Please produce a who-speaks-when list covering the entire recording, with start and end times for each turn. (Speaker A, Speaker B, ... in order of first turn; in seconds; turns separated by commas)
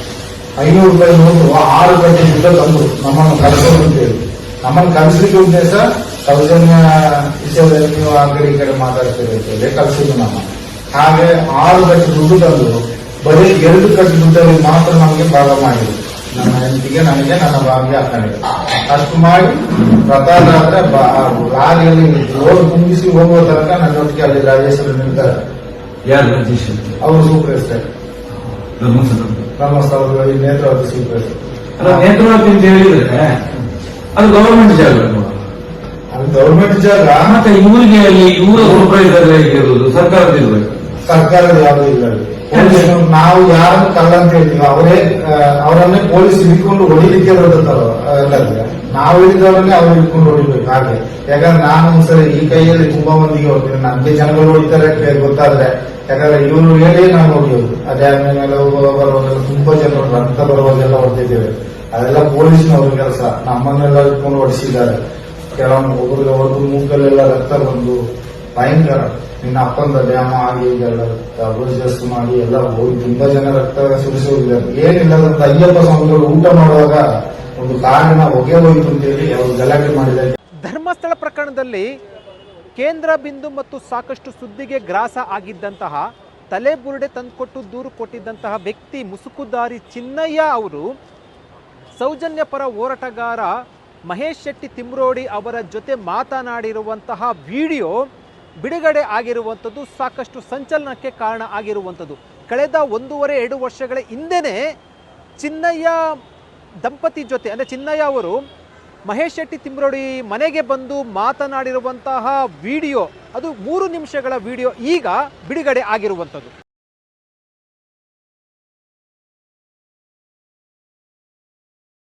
Speaker A: 0.6-25.3, Speaker B: 26.0-27.0, Speaker A: 27.0-27.8, Speaker B: 28.8-29.5, Speaker A: 29.6-32.1, Speaker B: 31.8-33.5, Speaker B: 34.1-35.4, Speaker A: 36.1-37.4, Speaker B: 37.2-40.8, Speaker A: 41.0-65.0, Speaker B: 42.5-42.9, Speaker A: 65.5-68.0, Speaker A: 68.5-80.3, Speaker C: 80.6-81.9, Speaker C: 82.7-90.9, Speaker C: 92.0-93.5, Speaker C: 94.1-97.9, Speaker C: 98.6-104.6, Speaker C: 105.4-106.0, Speaker C: 106.8-108.4, Speaker C: 109.0-116.5